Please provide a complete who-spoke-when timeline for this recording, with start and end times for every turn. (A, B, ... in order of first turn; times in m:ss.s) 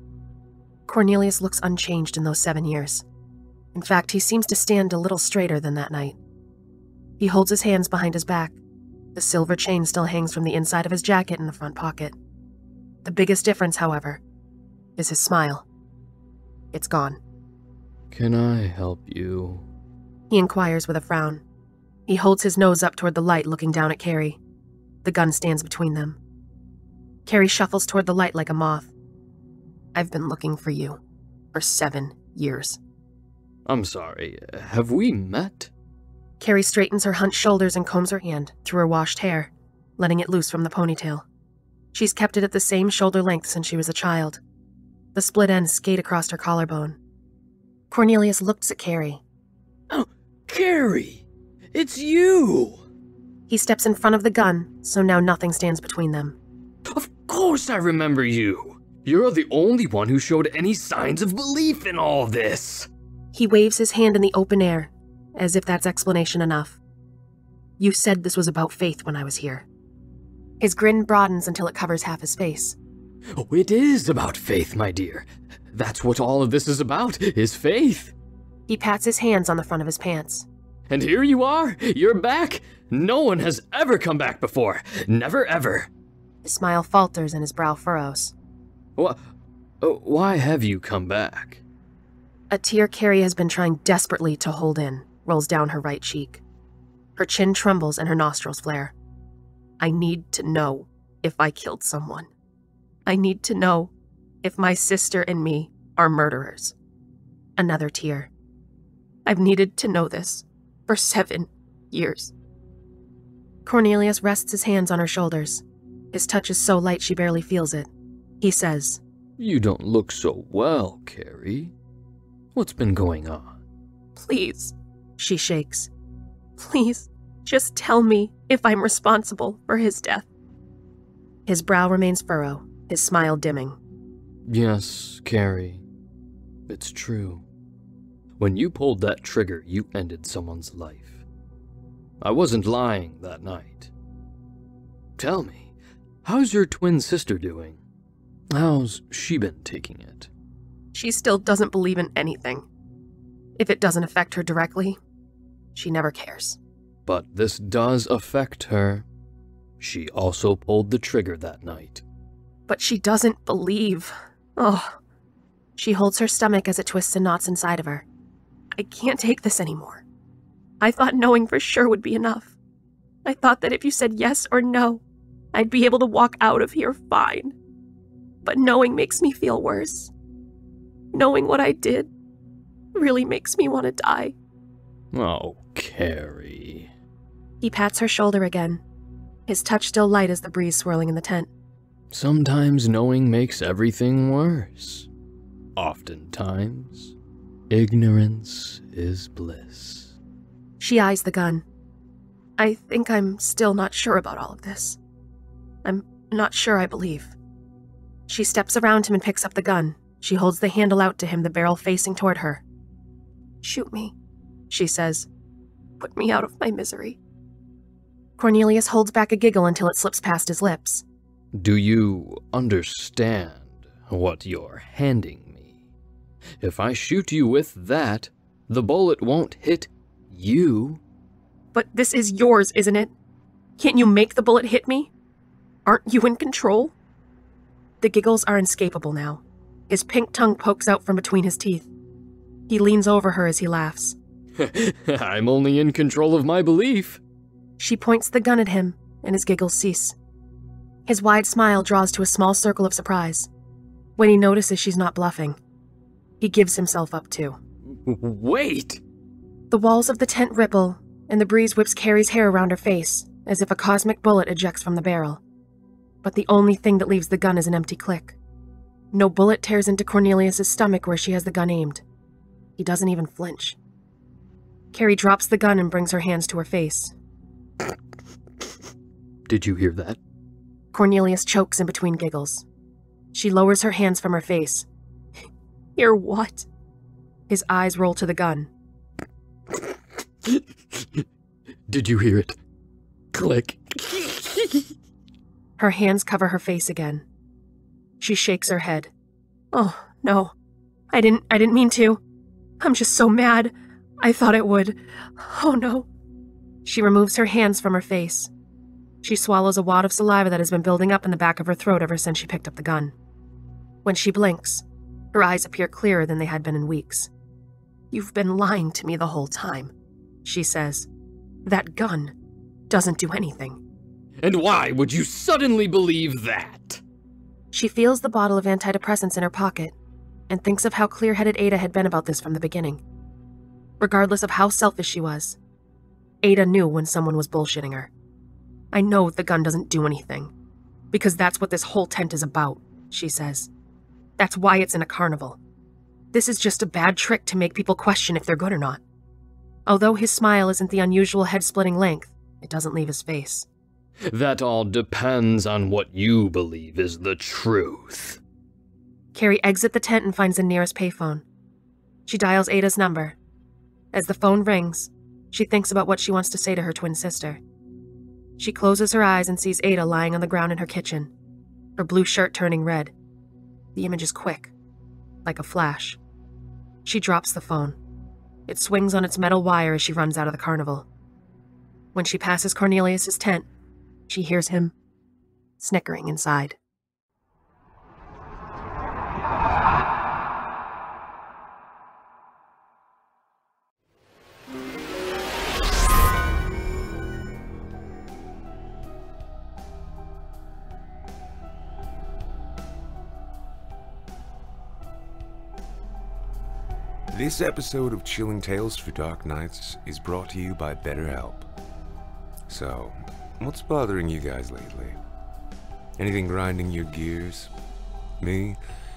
0:00.9-0:03.0 A
0:03.7-0:06.2 A
0:07.2-0:08.6 A
0:09.1-0:12.1 A
0:13.0-0:14.2 A
0:15.0-0:15.6 A
0:16.7-0:17.2 A
0:18.1-0:19.6 B
0:20.3-0:21.4 A
0:22.1-0:24.4 A
0:25.0-0:26.2 A
0:27.2-0:28.9 A
0:29.9-0:31.0 A
0:31.5-0:32.8 A
0:33.6-0:35.7 B
0:36.4-0:41.2 A
0:41.9-0:44.4 A
0:45.1-0:47.0 A
0:47.9-0:49.2 A
0:49.9-0:52.8 B
0:53.5-0:56.4 A
0:56.9-1:02.9 B
1:03.3-1:06.8 A
1:07.8-1:09.6 A
1:10.6-1:12.8 A
1:13.4-1:18.1 B
1:18.7-1:20.4 A
1:20.9-1:25.9 B
1:26.4-1:28.3 A
1:29.8-1:31.6 B
1:32.5-1:36.4 A
1:37.2-1:38.9 A
1:39.8-1:42.3 A
1:43.1-1:43.9 A
1:44.4-1:46.7 A
1:47.6-1:48.3 A
1:49.2-1:52.3 A
1:53.6-1:57.9 A
1:58.4-1:59.0 A
1:59.4-2:01.7 B
2:02.5-2:03.6 B
2:04.2-2:05.9 A
2:06.6-2:10.2 A
2:11.4-2:13.8 A
2:14.5-2:15.8 B
2:16.7-2:17.4 B
2:18.4-2:21.2 B
2:22.2-2:23.9 B
2:25.2-2:27.8 B
2:28.5-2:30.3 B
2:30.9-2:32.6 A
2:33.6-2:35.0 A
2:35.7-2:36.6 A
2:37.0-2:39.0 B
2:39.8-2:42.0 B
2:42.7-2:45.0 A
2:45.8-2:48.0 A
2:48.7-2:50.0 A
2:50.8-2:52.5 A
2:53.2-2:55.0 A
2:55.5-2:57.5 A
2:58.4-3:00.1 A
3:01.1-3:02.1 A
3:02.9-3:04.3 A
3:05.1-3:06.9 B
3:07.6-3:08.8 A
3:09.5-3:11.5 A
3:12.1-3:15.1 B
3:15.8-3:17.1 B
3:17.7-3:20.1 B
3:20.8-3:21.6 A
3:22.6-3:25.0 A
3:25.8-3:27.3 A
3:28.3-3:32.6 A
3:33.6-3:34.1 A
3:34.7-3:35.3 A
3:36.0-3:37.2 A
3:38.4-3:41.0 A
3:41.5-3:45.7 B
3:46.6-3:51.0 B
3:51.7-3:53.1 A
3:53.8-3:55.1 A
3:55.8-3:56.9 A
3:58.0-4:01.9 A
4:02.7-4:04.2 A
4:04.6-4:07.2 B
4:07.8-4:10.1 A
4:11.0-4:13.5 A
4:14.2-4:15.6 A
4:16.4-4:17.6 A
4:17.9-4:19.0 B
4:19.7-4:25.4 A
4:26.2-4:28.4 A
4:29.1-4:32.0 A
4:32.8-4:33.8 A
4:34.9-4:37.1 A
4:39.5-4:40.2 B
4:40.9-4:42.6 A
4:43.3-4:44.8 A
4:46.0-4:46.7 A
4:47.5-4:48.7 A
4:50.4-4:51.2 B
4:51.9-4:52.6 B
4:53.3-4:54.9 B
4:55.8-4:57.2 A
4:58.2-4:59.1 A
4:59.7-5:00.5 A
5:01.1-5:02.2 A
5:02.8-5:06.1 A
5:06.8-5:08.5 A
5:09.2-5:13.1 A
5:14.0-5:17.3 A
5:18.1-5:19.9 A
5:20.4-5:21.1 A
5:21.6-5:22.3 A
5:22.9-5:23.8 A
5:24.4-5:27.0 B
5:27.7-5:29.9 A
5:30.5-5:33.0 A
5:34.0-5:35.6 A
5:36.4-5:38.1 A
5:38.9-5:40.5 A
5:41.1-5:43.7 A
5:44.4-5:45.6 A
5:46.3-5:49.0 A
5:49.9-5:53.7 A
5:54.3-5:58.4 B
5:59.3-6:01.4 A
6:02.3-6:03.4 A
6:04.1-6:07.6 A
6:08.6-6:11.3 A
6:12.0-6:13.1 A
6:13.9-6:14.7 A
6:15.4-6:16.2 A
6:17.0-6:18.0 A
6:18.7-6:21.0 A
6:22.1-6:23.6 A
6:24.3-6:24.9 A
6:25.8-6:26.8 A
6:47.3-6:51.7 C
6:52.7-6:55.2 C
6:56.2-6:57.7 C
6:58.4-6:58.8 C